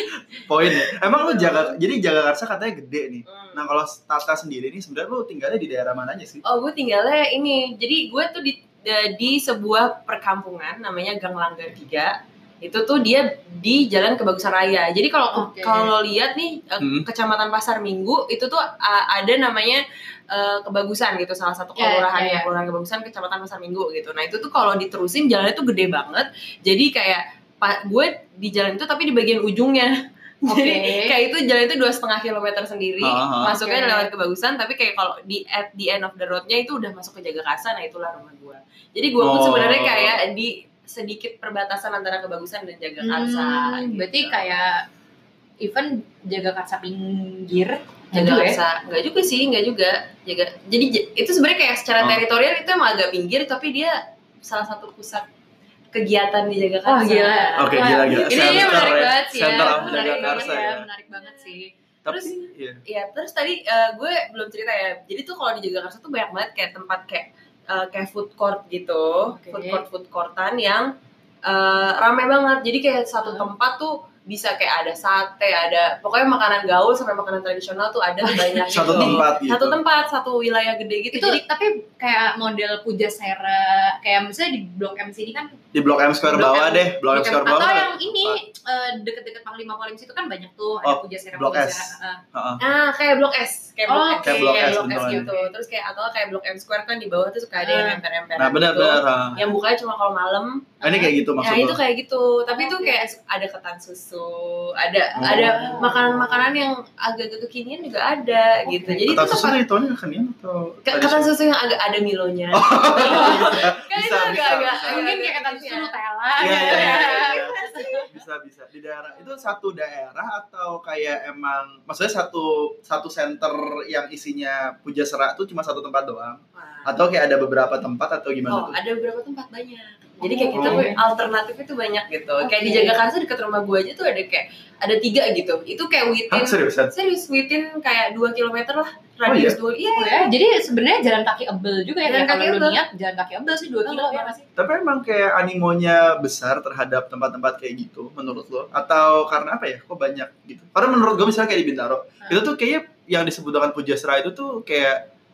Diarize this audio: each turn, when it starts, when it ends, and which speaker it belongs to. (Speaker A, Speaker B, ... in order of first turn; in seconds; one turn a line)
Speaker A: 0.3-6.4
Speaker B: 0.9-1.8
Speaker B: 3.3-3.6
Speaker B: 6.4-29.9
Speaker C: 15.3-15.9
Speaker A: 16.8-17.0
Speaker C: 21.8-22.5
Speaker B: 30.4-44.4
Speaker C: 30.5-31.1
Speaker A: 33.0-33.5
Speaker C: 33.5-34.1
Speaker A: 39.2-40.2
Speaker C: 43.0-44.8
Speaker C: 45.6-48.6
Speaker B: 48.1-55.2
Speaker B: 55.9-61.5
Speaker C: 56.9-61.7
Speaker A: 57.6-60.9
Speaker A: 62.0-62.8
Speaker B: 62.1-70.9
Speaker C: 69.3-69.8
Speaker B: 71.5-81.4
Speaker C: 73.2-73.5
Speaker C: 78.2-79.2
Speaker A: 78.7-79.8
Speaker C: 81.1-85.5
Speaker A: 85.7-88.4
Speaker C: 86.2-92.2
Speaker A: 90.8-92.6
Speaker B: 92.6-100.8
Speaker C: 93.9-95.5
Speaker A: 94.2-95.3
Speaker C: 97.6-98.0
Speaker A: 98.4-99.4
Speaker C: 100.8-101.1
Speaker A: 100.8-101.8
Speaker B: 101.4-109.6
Speaker C: 102.5-103.1
Speaker C: 105.1-106.4
Speaker A: 105.2-105.6
Speaker C: 108.7-109.1
Speaker A: 109.1-111.3
Speaker B: 110.9-118.1
Speaker A: 112.5-115.0
Speaker C: 113.0-118.0
Speaker A: 116.4-117.5
Speaker A: 118.1-128.8
Speaker B: 126.5-126.9
Speaker B: 128.5-140.3
Speaker C: 130.2-131.0
Speaker A: 130.5-130.8
Speaker C: 132.4-132.9
Speaker A: 136.3-136.9
Speaker A: 139.2-139.6
Speaker C: 139.9-144.3
Speaker B: 142.1-142.8
Speaker B: 143.8-144.5
Speaker A: 144.6-155.0